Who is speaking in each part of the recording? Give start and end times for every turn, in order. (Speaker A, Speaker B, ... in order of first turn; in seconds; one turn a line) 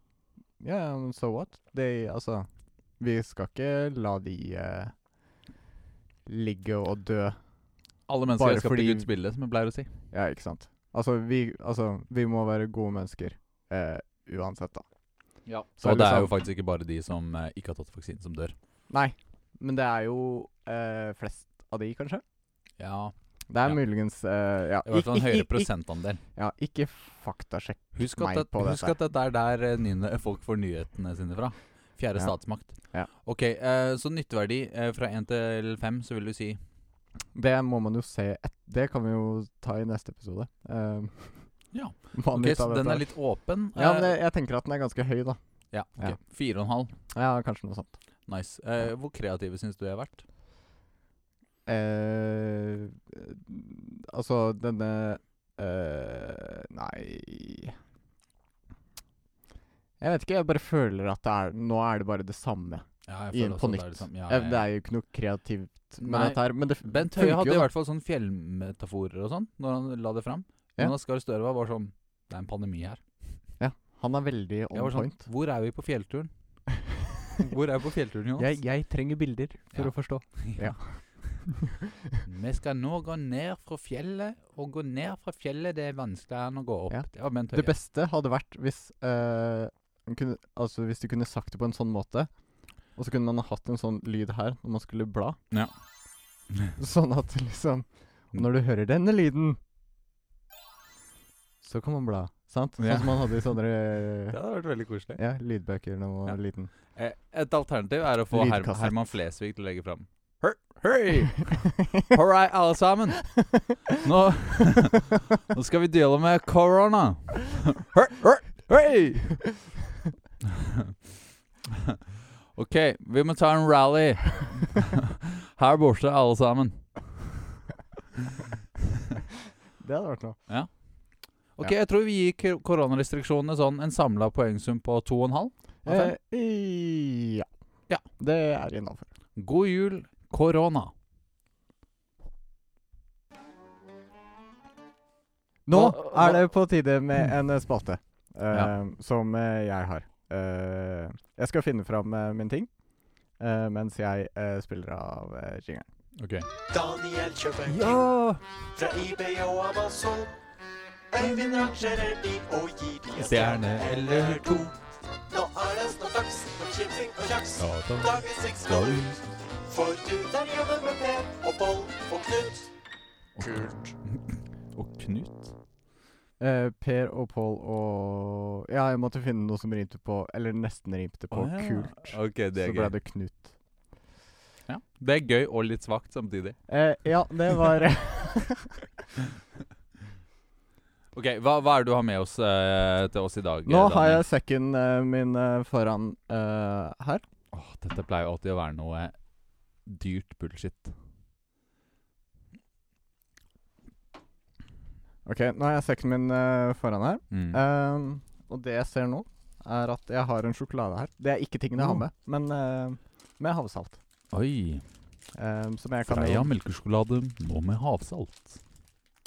Speaker A: 0.6-2.5
Speaker A: 3.0-4.9
Speaker A: 6.2-7.4
Speaker B: 8.1-9.9
Speaker A: 8.4-9.1
Speaker A: 10.1-14.8
Speaker B: 15.4-18.5
Speaker A: 15.8-16.3
Speaker A: 18.9-22.2
Speaker B: 22.8-23.8
Speaker A: 23.5-25.7
Speaker B: 24.8-26.2
Speaker A: 26.3-28.9
Speaker B: 27.9-36.6
Speaker A: 37.3-41.5
Speaker B: 41.7-44.1
Speaker A: 42.1-43.1
Speaker A: 43.7-45.4
Speaker B: 45.7-46.9
Speaker A: 47.1-47.9
Speaker B: 48.3-50.2
Speaker A: 51.6-57.8
Speaker A: 60.0-67.7
Speaker B: 63.0-64.6
Speaker B: 66.0-73.0
Speaker A: 73.6-75.2
Speaker B: 74.7-76.3
Speaker B: 77.4-78.5
Speaker A: 78.4-82.1
Speaker B: 79.7-80.7
Speaker B: 82.2-87.7
Speaker A: 86.9-92.3
Speaker A: 92.9-95.4
Speaker A: 96.8-99.6
Speaker A: 101.6-104.4
Speaker B: 102.8-103.4
Speaker B: 104.3-105.2
Speaker A: 105.2-106.7
Speaker B: 106.9-119.5
Speaker A: 108.3-108.9
Speaker B: 120.4-121.0
Speaker B: 121.7-122.0
Speaker B: 122.5-127.1
Speaker A: 129.8-130.4
Speaker B: 131.5-136.1
Speaker A: 135.8-137.4
Speaker A: 138.2-139.1
Speaker B: 139.3-140.9
Speaker A: 145.7-152.7
Speaker B: 145.7-146.4
Speaker A: 153.4-155.9
Speaker B: 156.2-156.5
Speaker A: 156.8-157.6
Speaker B: 157.7-158.4
Speaker A: 158.9-159.2
Speaker C: 159.0-160.1
Speaker C: 161.4-162.2
Speaker A: 162.3-163.3
Speaker B: 163.2-164.6
Speaker C: 165.4-166.6
Speaker A: 166.6-167.2
Speaker B: 167.5-169.2
Speaker C: 168.2-168.5
Speaker C: 169.7-172.3
Speaker B: 173.4-175.5
Speaker A: 176.4-183.5
Speaker B: 181.3-182.9
Speaker B: 184.7-186.6
Speaker A: 186.7-188.9
Speaker B: 191.1-194.2
Speaker A: 193.7-197.2
Speaker B: 197.5-199.1
Speaker B: 199.8-200.9
Speaker A: 205.2-214.0
Speaker B: 207.3-207.6
Speaker B: 211.8-212.0
Speaker B: 214.3-214.8
Speaker A: 215.3-216.5
Speaker B: 216.0-218.6